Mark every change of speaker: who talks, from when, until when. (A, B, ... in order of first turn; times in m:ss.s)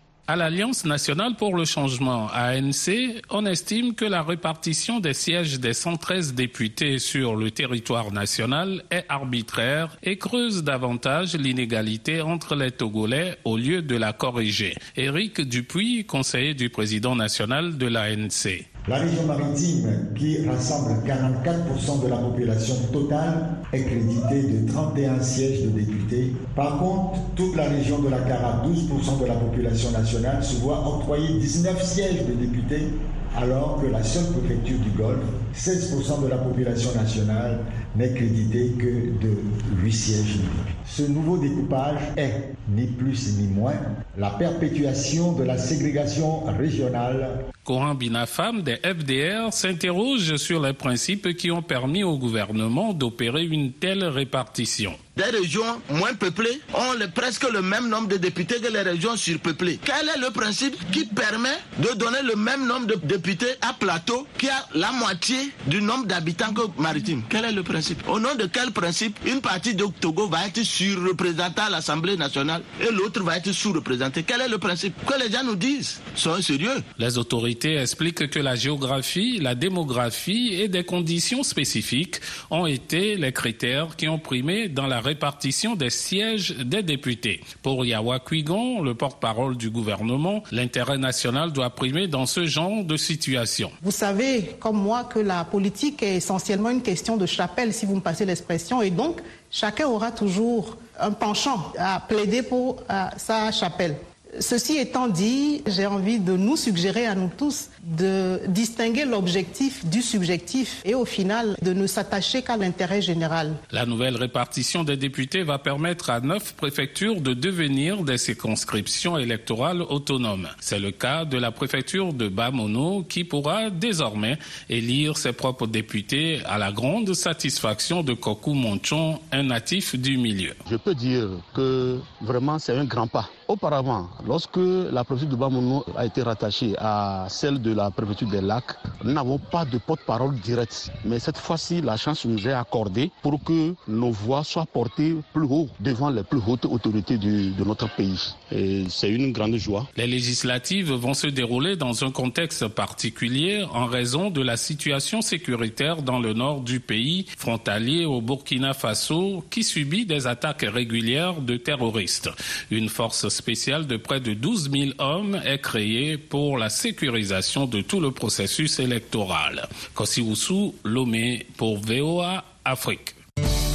0:00.3-0:18.6 A
0:18.9-0:47.4 B
0:47.6-0:55.0 A
0:55.2-1:16.8 C
1:17.0-1:33.7 A
1:33.8-1:53.6 D
1:53.7-2:10.6 A
2:10.6-2:29.9 E
2:29.9-2:53.2 A